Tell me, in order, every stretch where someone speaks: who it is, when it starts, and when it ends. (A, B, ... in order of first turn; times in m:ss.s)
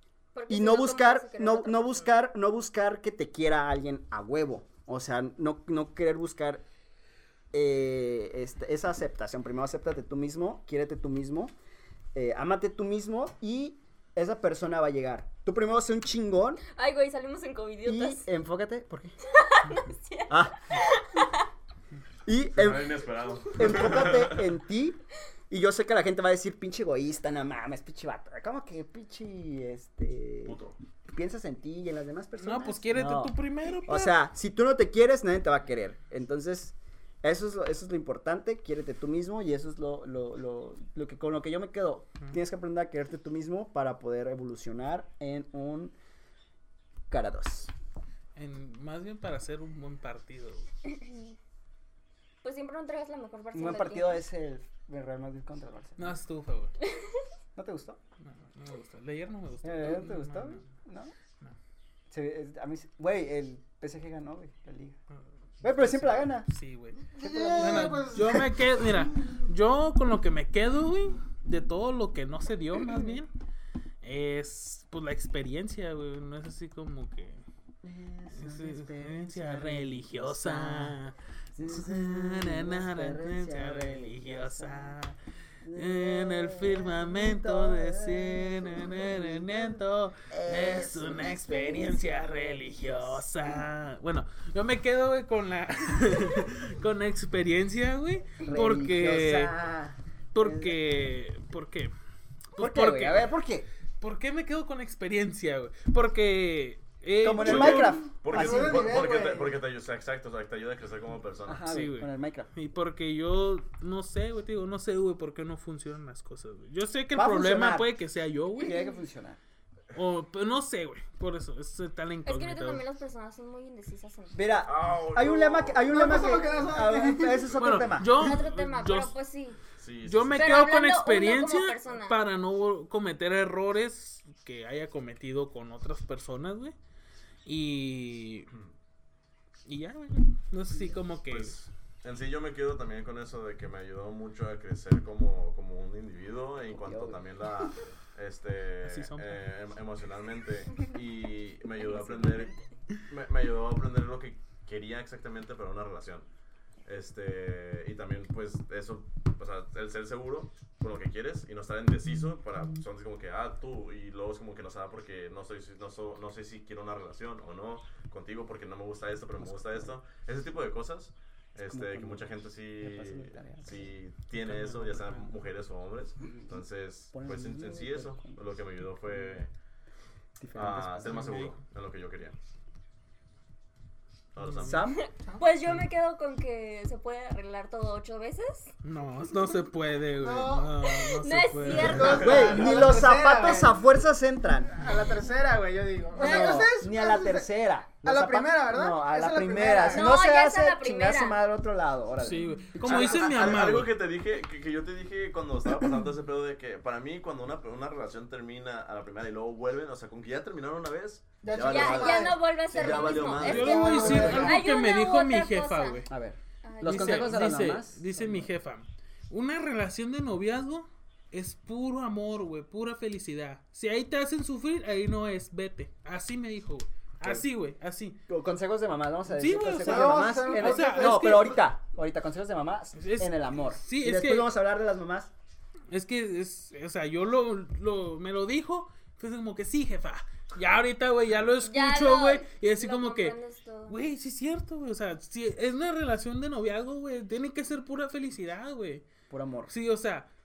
0:00.3-0:02.1 A
0:00.5-0:06.6 B
0:07.5-0:11.5 B
0:12.1-0:16.6 B
0:16.7-0:18.2 A
0:17.8-0:19.1 B
0:19.3-0:21.5 A
0:20.3-0:20.6 B
0:22.2-0:22.9 B
0:22.6-0:24.4 C
0:23.5-0:25.0 B
0:25.5-0:30.6 B
0:30.4-0:30.8 C
0:31.1-0:33.3 B
0:32.4-0:34.2 D
0:33.8-0:45.9 B
0:47.1-0:47.7 B
0:48.3-0:50.6 D
0:50.9-0:51.3 A
0:52.4-0:54.2 A
0:53.5-0:56.1 B
0:56.0-0:56.7 D
0:57.5-0:58.0 B
0:58.2-1:00.7 D
0:59.6-1:01.1 B
1:02.1-1:05.0 B
1:05.1-1:13.3 D
1:05.6-1:06.5 B
1:07.1-1:08.8 E
1:07.2-1:08.1 B
1:14.0-1:17.4 D
1:17.8-1:21.0 B
1:18.4-1:25.2 D
1:21.6-1:25.0 B
1:25.6-1:33.7 B
1:25.7-1:39.5 D
1:38.4-1:41.1 B
1:40.3-1:41.9 D
1:42.6-1:43.3 D
1:42.6-1:43.6 B
1:44.0-1:48.0 D
1:47.2-1:48.9 B
1:47.4-1:51.7 C
1:48.2-1:49.6 E
1:51.5-1:52.5 B
1:51.7-1:58.8 D
1:57.1-1:57.9 B
1:58.6-1:59.4 B
1:59.9-2:02.8 D
2:02.2-2:04.6 A
2:04.3-2:08.4 B
2:04.6-2:06.5 C
2:05.9-2:07.5 E
2:07.4-2:08.1 C
2:07.6-2:09.1 D
2:08.0-2:09.6 A
2:09.8-2:10.6 C
2:10.0-2:16.7 D
2:10.3-2:12.2 A
2:17.4-2:18.5 D
2:19.6-2:21.6 D
2:21.3-2:32.5 C
2:26.7-2:27.2 B
2:28.8-2:29.4 D
2:33.1-2:36.3 C
2:36.8-2:59.5 C
2:51.6-2:53.9 B
2:54.4-2:55.4 D
2:56.2-2:58.4 B
2:59.1-2:59.4 B
3:00.4-3:01.4 B
3:00.5-3:02.4 C
3:01.0-3:01.5 D
3:04.3-3:04.9 C
3:04.5-3:04.8 D
3:04.6-3:05.0 B
3:04.9-3:08.7 A
3:08.8-3:12.2 D
3:10.2-3:10.7 E
3:10.8-3:12.6 A
3:11.8-3:13.8 E
3:12.1-3:12.6 C
3:12.1-3:14.7 B
3:14.7-3:17.5 E
3:16.2-3:23.6 B
3:16.2-3:16.6 A
3:18.0-3:20.2 E
3:19.9-3:21.4 A
3:22.2-3:23.9 D
3:22.8-3:34.4 C
3:31.4-3:34.7 E
3:31.6-3:36.0 A
3:31.8-3:32.1 B
3:33.4-3:36.1 D
3:36.1-3:38.5 B
3:36.6-3:37.5 A
3:36.8-3:48.2 D
3:48.3-3:55.3 B
3:49.3-3:51.6 D
3:49.8-3:51.6 E
3:53.0-3:54.5 D
3:55.9-4:03.4 D
4:01.6-4:03.9 A
4:03.9-4:09.0 D
4:09.3-4:09.7 B
4:09.7-4:10.3 D